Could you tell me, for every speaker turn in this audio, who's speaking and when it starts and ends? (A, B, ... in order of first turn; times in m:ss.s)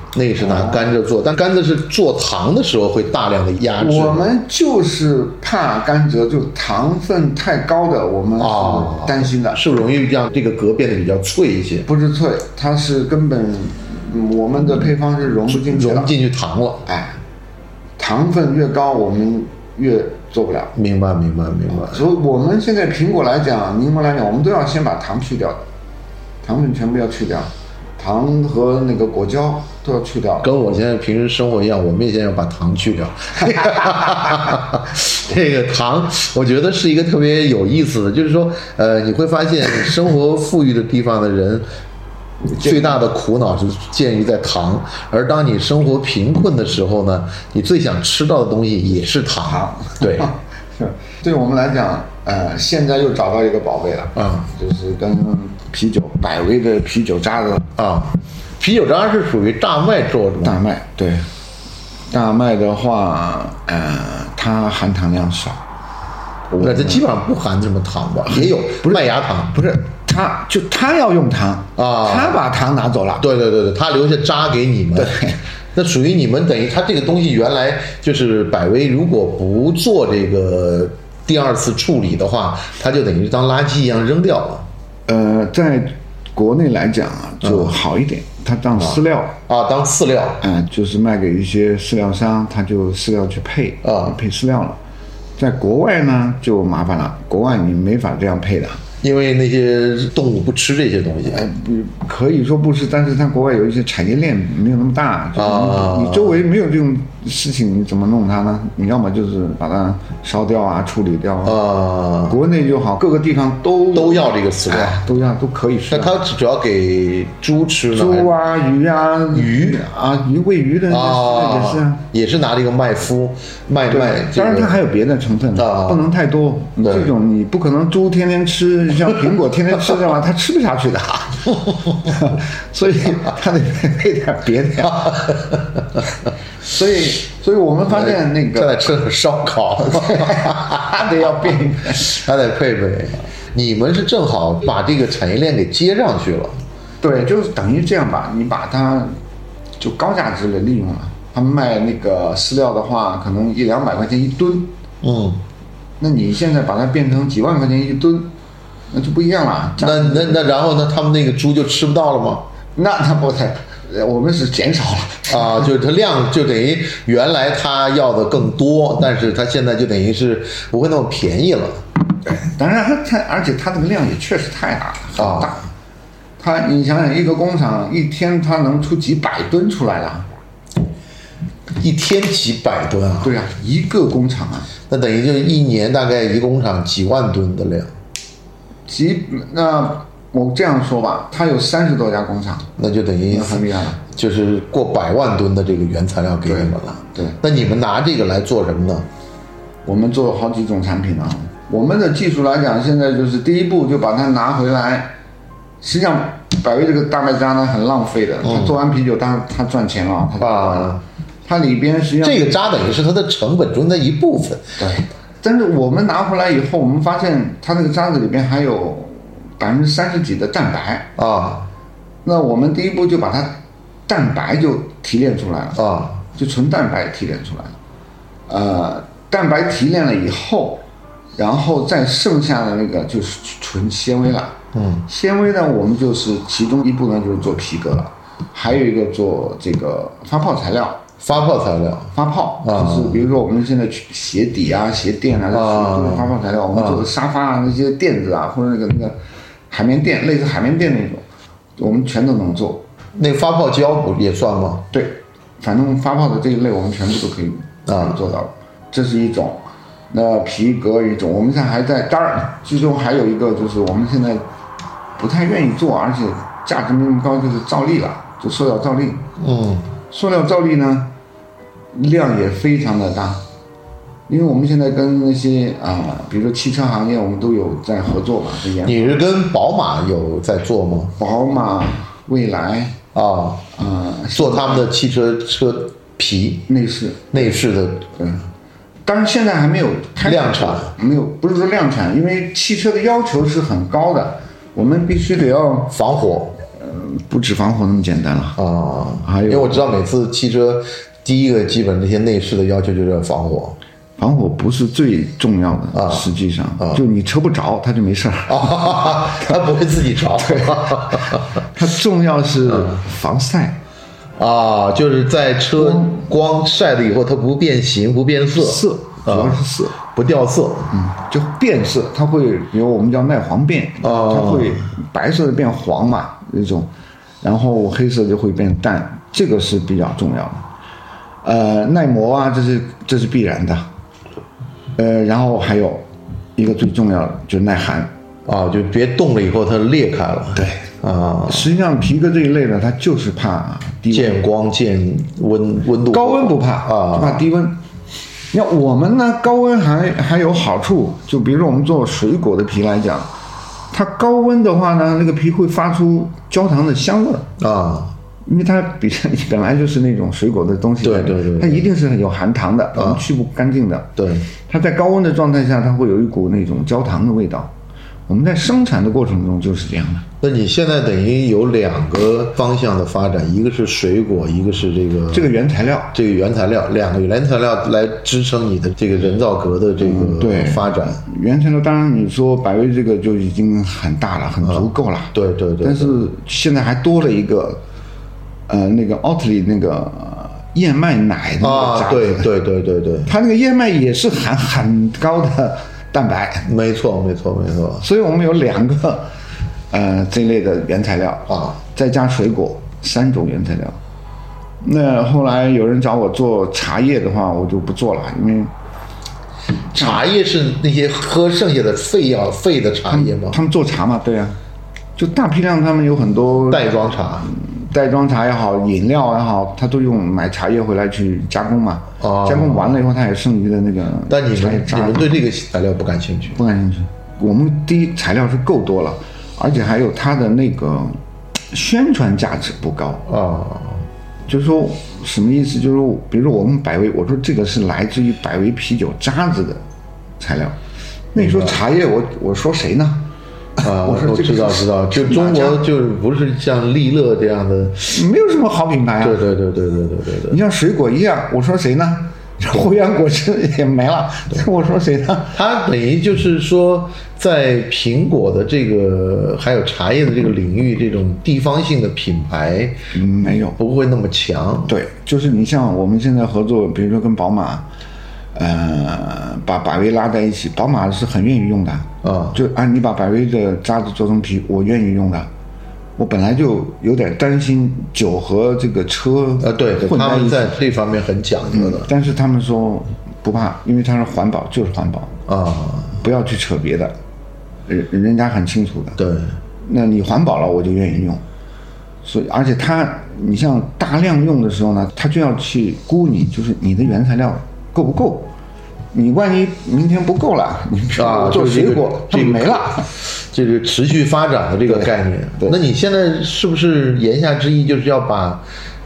0:00.1-0:04.3 A
0:00.4-0:00.9 B
0:03.8-0:09.8 B
0:08.4-0:11.9 A
0:11.9-0:16.1 B
0:15.5-0:16.9 A
0:16.9-0:17.2 B
0:18.0-0:20.8 B
0:20.8-0:22.0 A
0:21.7-0:25.6 B
0:26.4-0:30.5 B
0:30.4-0:41.7 A
0:42.5-0:43.0 B
0:42.5-0:50.3 A
0:49.5-0:57.7 B
0:54.2-0:54.5 A
0:57.8-1:00.6 A
1:00.4-1:01.3 B
1:02.1-1:05.6 B
1:06.5-1:07.0 B
1:06.6-1:09.6 A
1:08.3-1:13.2 B
1:11.8-1:12.4 A
1:13.2-1:24.7 A
1:15.0-1:15.4 B
1:25.1-1:29.4 B
1:27.4-1:27.8 A
1:28.8-1:30.4 A
1:30.4-1:34.8 B
1:33.8-1:34.1 A
1:35.4-1:38.8 B
1:39.0-1:41.5 A
1:41.3-1:51.6 B
1:45.4-1:46.4 A
1:51.4-1:52.4 A
1:52.3-1:56.2 B
1:53.9-1:55.0 A
1:55.9-1:58.3 A
1:57.9-2:02.0 B
1:59.3-1:59.8 A
2:00.9-2:04.8 A
2:03.9-2:15.3 B
2:05.6-2:06.0 A
2:06.8-2:07.1 A
2:11.7-2:12.2 A
2:14.8-2:16.0 A
2:16.6-2:18.9 B
2:17.9-2:21.3 A
2:19.8-2:22.2 B
2:21.9-2:26.6 A
2:27.0-2:29.2 B
2:29.8-2:34.8 B
2:35.0-2:35.4 A
2:36.0-2:38.3 B
2:38.9-2:40.5 B
2:39.8-2:42.5 A
2:42.8-2:45.6 B
2:45.3-2:51.8 A
2:52.3-2:55.6 B
2:55.2-2:55.6 A
2:56.4-3:00.3 B
3:01.8-3:03.4 A
3:03.2-3:04.7 B
3:04.9-3:07.9 A
3:08.9-3:12.7 B
3:12.8-3:19.1 A
3:13.3-3:14.0 B
3:16.4-3:17.4 B
3:19.8-3:25.1 B
3:25.8-3:32.6 B
3:28.4-3:28.8 A
3:30.4-3:31.0 A
3:32.2-3:34.7 A
3:34.8-3:41.1 B
3:41.2-3:41.7 A
3:42.2-3:47.8 B
3:45.8-3:46.2 A
3:48.5-3:50.8 B
3:51.4-4:01.0 B
3:54.7-3:55.0 A
4:01.2-4:03.3 A
4:02.1-4:09.2 B
4:05.5-4:07.0 A
4:09.7-4:11.2 B
4:11.8-4:12.8 B
4:13.2-4:14.9 A
4:14.9-4:24.4 B
4:17.9-4:18.2 A
4:25.2-4:29.3 B
4:29.4-4:29.9 A
4:30.1-4:31.1 B
4:31.9-4:33.4 B
4:34.3-4:39.2 B
4:38.8-4:41.2 A
4:41.2-4:43.0 B
4:43.1-4:43.7 A
4:43.8-4:44.9 B
4:44.3-4:46.7 A
4:46.7-4:47.6 B
4:47.3-4:48.2 A
4:48.2-4:48.5 B
4:49.1-4:56.0 B
4:50.2-4:50.9 A
4:55.9-4:56.6 A
4:56.7-4:58.6 B
4:58.6-5:03.8 A
4:59.2-4:59.9 B
5:04.2-5:09.6 B
5:05.9-5:06.3 A
5:08.5-5:11.6 A
5:10.4-5:13.8 B
5:12.7-5:13.0 A
5:14.4-5:20.9 A
5:15.8-5:16.2 B
5:18.6-5:20.0 B
5:20.9-5:26.9 B
5:24.0-5:24.8 A
5:27.4-5:30.6 B
5:31.4-5:33.9 B
5:35.0-5:38.1 B
5:38.5-5:41.7 A
5:40.6-5:40.9 B
5:41.5-5:44.4 B
5:44.1-5:47.4 A
5:46.1-5:47.8 B
5:48.5-5:53.3 B
5:53.9-5:57.5 B
5:57.6-5:58.2 A
5:58.5-6:07.7 B
6:01.0-6:01.9 A
6:03.0-6:03.2 A
6:04.2-6:04.5 A
6:08.3-6:10.3 B
6:10.4-6:15.5 A
6:15.3-6:16.2 B
6:16.1-6:21.2 A
6:20.0-6:27.8 B
6:24.7-6:26.2 A
6:28.7-6:32.5 B
6:31.6-6:33.3 A
6:33.3-6:36.7 B
6:36.7-6:38.0 A
6:38.0-6:39.3 B
6:39.9-6:44.0 B
6:41.5-6:41.8 A
6:44.8-6:48.7 B
6:49.9-6:53.6 A
6:53.1-6:54.6 B
6:55.2-7:05.3 B
6:56.7-6:57.5 A
7:02.2-7:03.0 A
7:04.3-7:06.6 A
7:06.5-7:11.2 B
7:11.7-7:13.3 B
7:13.3-7:14.1 A
7:14.5-7:19.8 B
7:20.4-7:20.8 B
7:21.3-7:25.8 B
7:21.4-7:21.8 A
7:23.8-7:28.2 A
7:28.0-7:29.4 B
7:29.2-7:30.6 A
7:30.5-7:35.6 B
7:35.5-7:43.0 A
7:43.1-7:43.8 B
7:43.8-7:45.0 A
7:44.9-7:47.9 B
7:48.6-7:55.5 B
7:52.2-7:52.6 A
7:56.2-8:00.8 B
7:59.6-8:02.1 A
8:01.7-8:05.4 B
8:05.5-8:06.2 A
8:06.2-8:07.1 B
8:07.9-8:09.2 B
8:09.2-8:09.6 A
8:09.8-8:11.4 B
8:12.2-8:18.5 B
8:19.1-8:23.1 B
8:21.2-8:28.6 A
8:24.9-8:25.8 B